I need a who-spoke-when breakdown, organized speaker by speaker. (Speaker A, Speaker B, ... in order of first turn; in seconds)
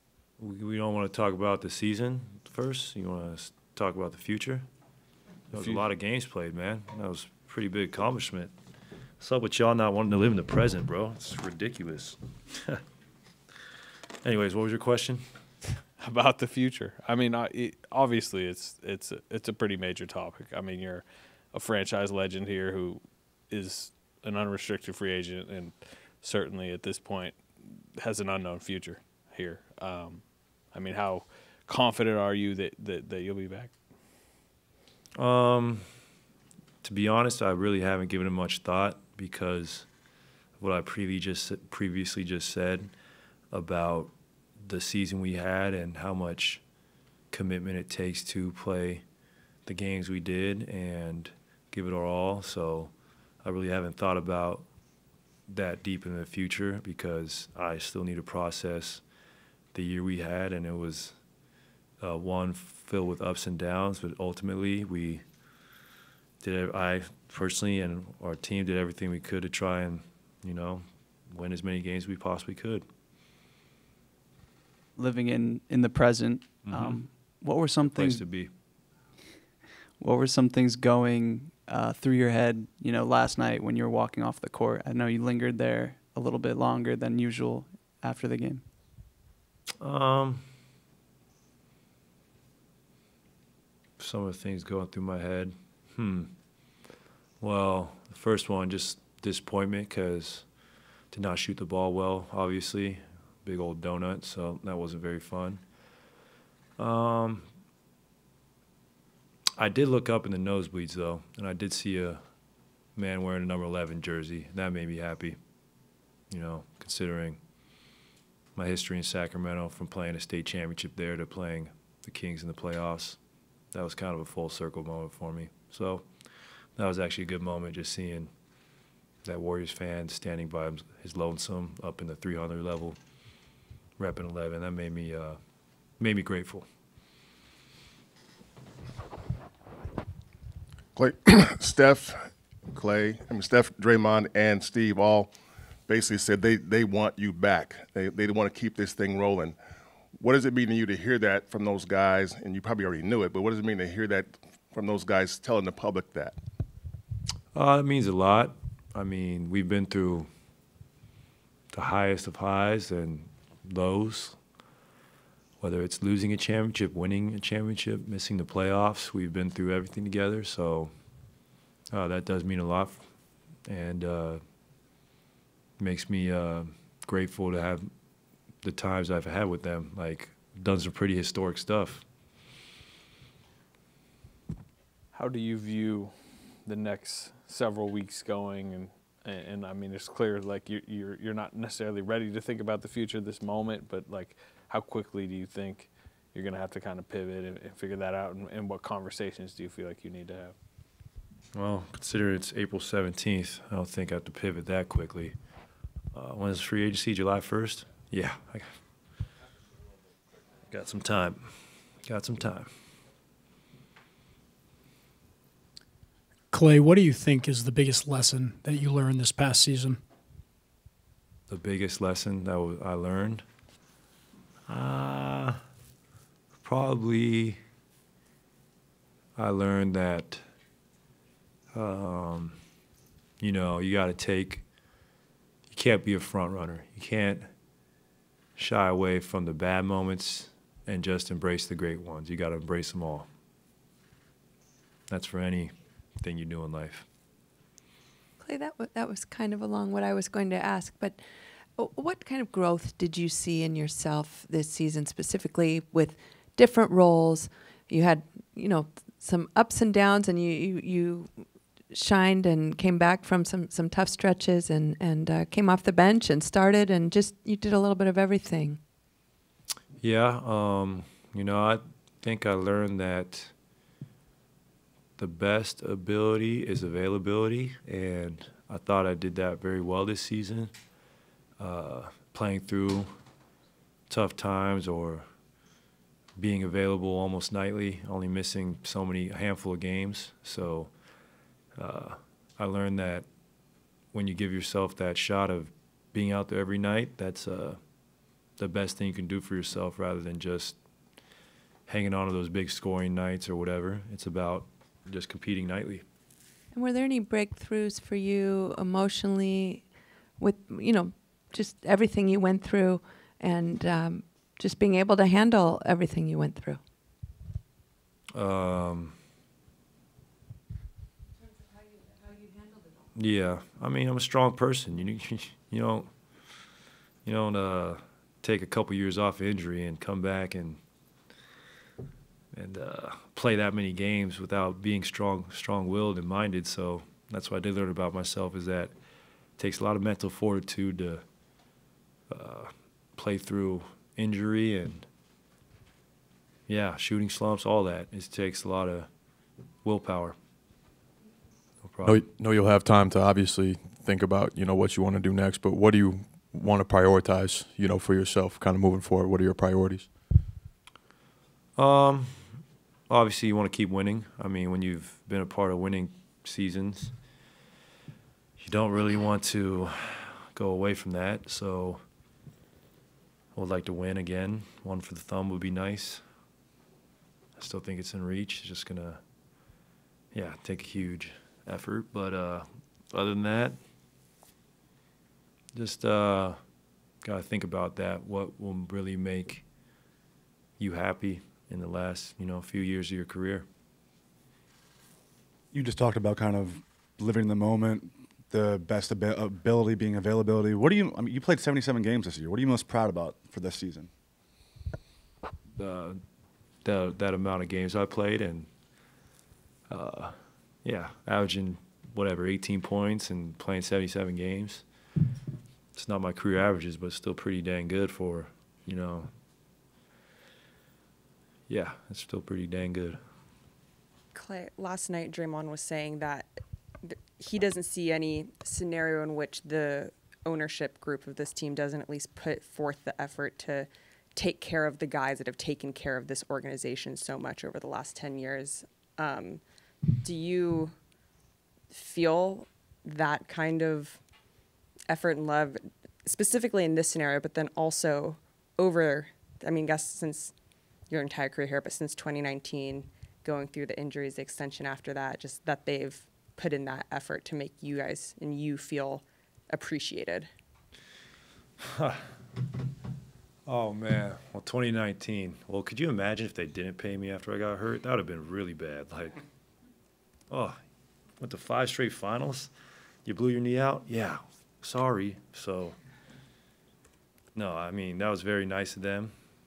Speaker A: 0.4-4.6, 5.5-8.5, 9.2-12.8, 14.2-15.2, 35.1-35.8, 36.8-39.9, 40.6-42.9, 43.5-44.1, 44.6-46.6, 47.3-49.0, 49.6-54.7, 55.5-59.0, 59.7-61.1, 62.0-65.2, 66.4-72.8, 76.6-77.2, 77.8-78.5, 89.8-90.4, 94.0-96.3, 97.4-100.5, 101.1-105.6, 106.8-107.4, 109.5-112.2, 113.0-115.4, 116.3-117.4, 118.5-123.2, 123.7-126.0, 126.8-128.3, 129.2-133.0, 134.0-135.4, 136.0-136.7, 157.5-160.3, 161.7-164.4, 165.6-170.9, 171.9-173.1, 173.7-174.4, 175.8-177.9, 178.6-182.0, 201.5-205.3, 206.1-208.7, 210.7-211.5, 212.0-212.7, 221.5-223.4, 224.7-225.6, 226.6-227.6, 229.3-230.4, 231.7-232.6, 233.4-234.6, 235.7-237.5, 238.6-243.3, 245.1-247.1, 270.0-273.5, 275.2-280.7, 281.6-283.1, 284.1-285.3, 286.4-290.9, 291.8-293.2, 294.1-297.8, 298.6-300.8, 301.9-306.0, 318.3-319.1, 323.1-326.1, 327.2-330.8, 332.5-338.9, 339.6-341.2, 342.3-345.1, 346.7-349.1, 349.8-350.4, 351.8-352.2, 361.8-367.1, 368.6-372.0, 373.5-376.2, 377.6-379.2, 380.3-383.8, 385.7-386.6, 387.2-389.6, 390.8-393.6, 405.8-406.2, 406.8-408.7, 409.9-414.8, 415.9-419.3, 421.7-423.2, 461.9-462.2, 463.6-469.4, 470.5-470.8, 471.4-472.7, 473.2-476.0, 477.5-479.3
Speaker B: 5.5-5.8, 16.0-33.8, 185.1-200.5
Speaker C: 75.0-78.2, 80.0-88.7
Speaker D: 140.9-145.3, 145.9-149.6, 150.2-156.3
Speaker E: 216.5-220.0
Speaker F: 248.4-251.2, 251.8-268.8, 306.7-316.8
Speaker G: 352.0-360.1
Speaker H: 395.7-404.1
Speaker I: 424.3-426.5, 427.0-439.6, 440.2-440.9, 441.9-444.2, 445.1-450.5, 451.1-460.5